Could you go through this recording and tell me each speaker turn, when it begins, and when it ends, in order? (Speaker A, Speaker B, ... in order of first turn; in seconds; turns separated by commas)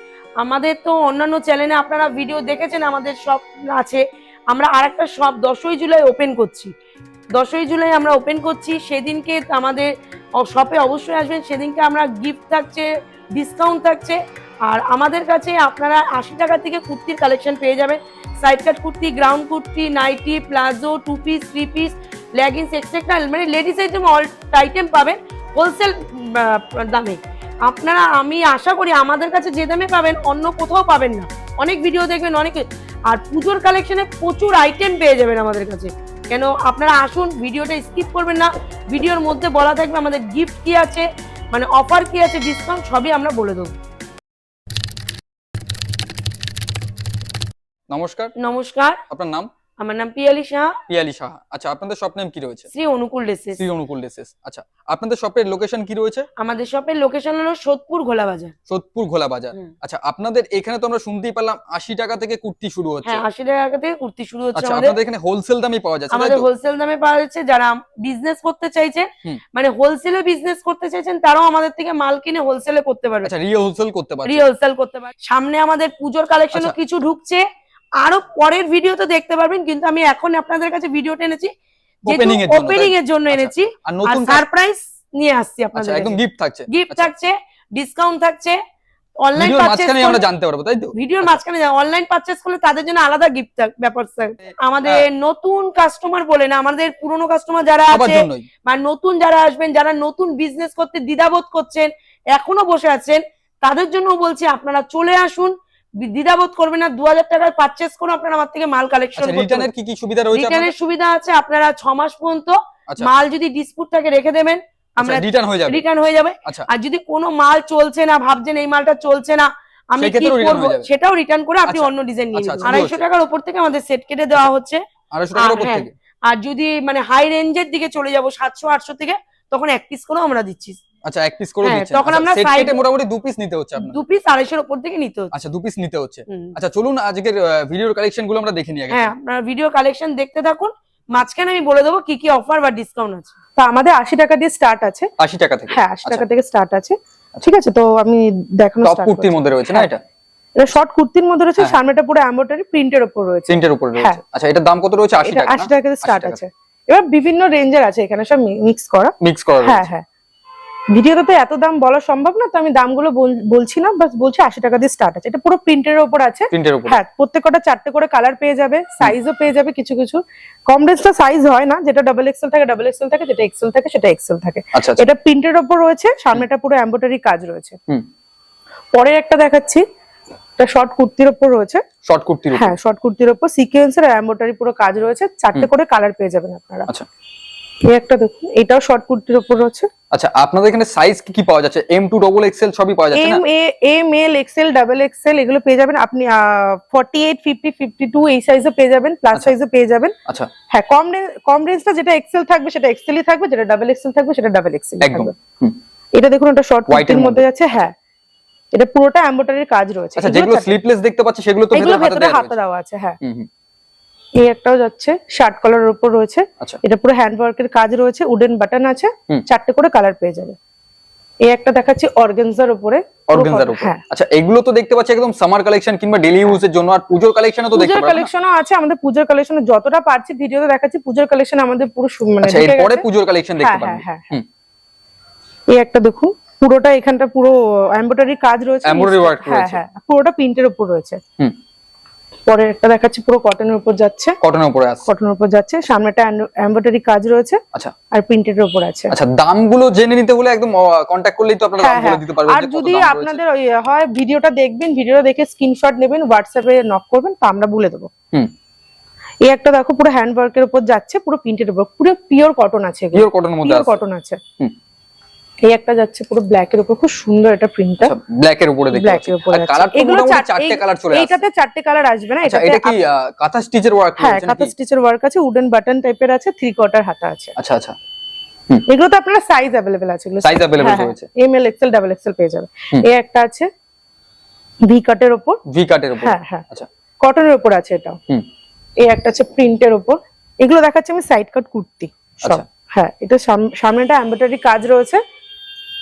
Speaker A: 0.4-6.7, Speaker A: 7.3-43.7, Speaker B: 47.9-48.3, Speaker A: 48.4-49.0, Speaker B: 49.1-49.5, Speaker A: 49.8-50.8, Speaker B: 50.9-52.7, Speaker A: 52.7-53.6, Speaker B: 53.6-56.3, Speaker A: 56.4-58.5, Speaker B: 58.7-63.2, Speaker A: 63.0-64.9, Speaker B: 64.5-66.5, Speaker A: 66.1-73.3, Speaker B: 73.2-74.5, Speaker A: 74.2-77.5, Speaker A: 78.0-81.5, Speaker B: 82.0-84.4, Speaker A: 82.0-88.6, Speaker B: 85.7-87.1, Speaker A: 89.2-90.2, Speaker B: 89.3-91.4, Speaker A: 90.9-109.7, Speaker B: 94.5-95.0, Speaker B: 97.9-98.5, Speaker B: 109.2-110.7, Speaker A: 110.3-124.8, Speaker B: 115.0-115.8, Speaker B: 120.0-120.9, Speaker B: 121.7-123.0, Speaker B: 125.1-125.9, Speaker A: 125.3-130.8, Speaker B: 131.0-134.0, Speaker A: 131.6-132.8, Speaker A: 133.8-135.3, Speaker B: 135.3-139.1, Speaker A: 138.9-143.3, Speaker C: 143.6-145.1, Speaker B: 145.2-146.2, Speaker C: 145.7-149.9, Speaker B: 148.8-150.0, Speaker C: 150.6-154.2, Speaker B: 153.5-156.4, Speaker C: 155.2-160.0, Speaker B: 159.2-159.9, Speaker C: 160.9-177.8, Speaker B: 166.5-167.0, Speaker B: 174.7-175.0, Speaker C: 178.9-179.8, Speaker C: 180.6-181.8, Speaker B: 182.0-182.7, Speaker C: 182.5-186.9, Speaker C: 187.9-189.9, Speaker B: 190.1-193.4, Speaker C: 193.1-200.1, Speaker C: 200.7-205.3, Speaker B: 205.0-205.8, Speaker C: 206.1-207.9, Speaker B: 206.9-207.8, Speaker C: 208.7-210.8, Speaker B: 210.2-212.6, Speaker C: 211.7-213.2, Speaker B: 213.2-213.5, Speaker C: 214.4-220.6, Speaker C: 221.5-224.0, Speaker B: 223.3-228.3, Speaker C: 227.7-233.1, Speaker B: 232.4-234.4, Speaker C: 233.6-234.3, Speaker C: 235.7-241.2, Speaker B: 238.8-239.8, Speaker C: 242.5-244.4, Speaker B: 244.4-245.1, Speaker C: 245.1-247.6, Speaker C: 248.1-249.1, Speaker B: 249.1-253.4, Speaker C: 251.8-258.1, Speaker C: 259.5-264.4, Speaker B: 263.1-264.0, Speaker C: 265.7-268.1, Speaker B: 268.0-271.4, Speaker C: 268.9-273.0, Speaker B: 272.4-274.7, Speaker C: 274.2-277.5, Speaker B: 277.6-277.9, Speaker C: 278.9-283.7, Speaker B: 280.4-281.2, Speaker C: 284.9-285.6, Speaker B: 285.7-286.9, Speaker C: 286.2-286.6, Speaker C: 287.2-288.2, Speaker C: 289.0-295.2